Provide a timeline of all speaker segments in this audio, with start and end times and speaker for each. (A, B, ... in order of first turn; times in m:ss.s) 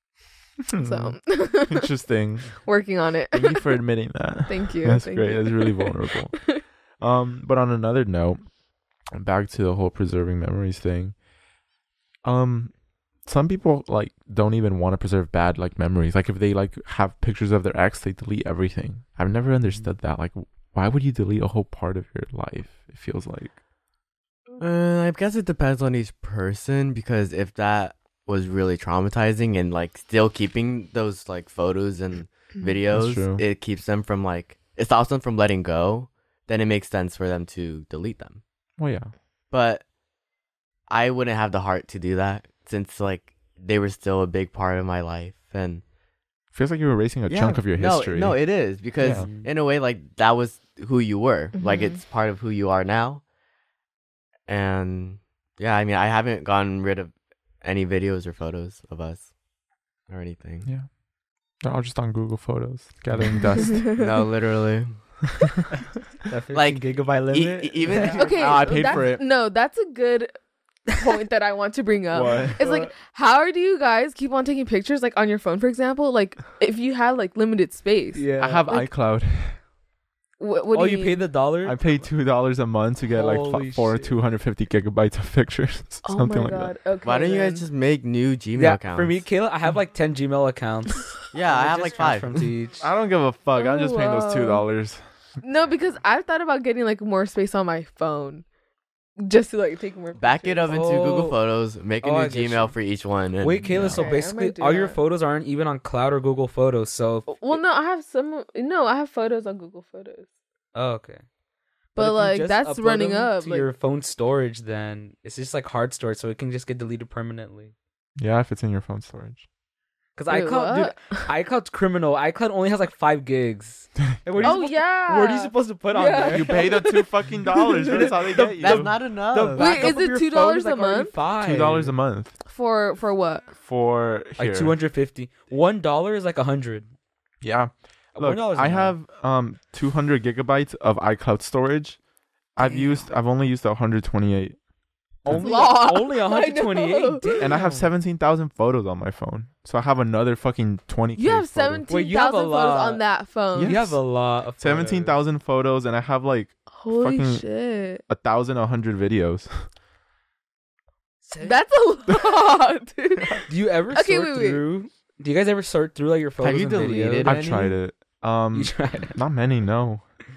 0:00.6-0:02.5 A
0:00.8-0:01.9 B
0:02.6-0:03.8 B
0:03.3-0:08.4 A
0:04.4-0:06.6 B
0:09.1-0:11.1 A
0:12.2-0:12.7 A
0:13.2-0:23.6 A
0:24.6-0:38.4 C
0:32.9-0:33.4 A
0:38.8-0:39.1 A
0:39.5-0:39.8 C
0:40.9-0:45.8 C
0:46.5-0:48.4 A
0:47.3-0:53.2 C
0:49.0-0:49.3 A
0:49.1-0:49.5 D
0:51.6-0:52.0 B
0:54.5-0:59.3 C
1:00.1-1:00.7 C
1:01.6-1:03.9 A
1:03.7-1:04.1 B
1:03.9-1:05.0 C
1:06.3-1:08.2 D
1:06.5-1:09.0 C
1:08.0-1:10.3 B
1:08.4-1:09.2 A
1:10.9-1:18.9 B
1:12.1-1:12.6 A
1:12.6-1:12.9 D
1:18.1-1:18.7 D
1:18.4-1:19.6 A
1:20.4-1:21.2 B
1:20.7-1:22.0 D
1:21.6-1:26.7 A
1:23.1-1:24.2 D
1:26.0-1:27.6 B
1:27.0-1:29.2 C
1:28.5-1:32.8 D
1:31.3-1:32.5 C
1:32.8-1:35.0 A
1:33.5-1:34.6 B
1:35.4-1:38.4 B
1:39.2-1:40.7 B
1:40.2-1:43.7 C
1:40.6-1:41.4 D
1:42.0-1:42.7 D
1:43.4-1:47.6 D
1:43.6-1:44.1 A
1:43.9-1:45.0 B
1:47.3-1:50.3 B
1:50.7-1:51.2 D
1:51.9-1:53.7 B
1:52.0-1:57.7 D
1:58.2-1:59.4 A
2:00.2-2:06.7 D
2:00.3-2:01.3 B
2:04.4-2:08.1 B
2:06.3-2:08.9 A
2:07.9-2:11.9 D
2:08.6-2:09.8 C
2:09.5-2:11.1 B
2:11.4-2:12.3 A
2:12.5-2:13.5 B
2:13.5-2:14.7 A
2:14.4-2:16.9 D
2:17.4-2:22.0 A
2:18.1-2:19.0 D
2:22.6-2:24.6 A
2:25.2-2:25.6 A
2:25.2-2:27.9 D
2:25.3-2:27.3 B
2:27.4-2:31.8 A
2:31.2-2:33.7 B
2:31.9-2:33.0 D
2:33.6-2:34.0 A
2:33.6-2:35.2 D
2:34.6-2:37.4 A
2:36.7-2:38.0 B
2:38.1-2:39.5 A
2:41.2-2:41.6 D
2:41.4-2:44.6 B
2:43.5-2:47.4 D
2:46.4-2:47.8 C
2:47.2-2:50.0 A
2:48.5-2:49.1 D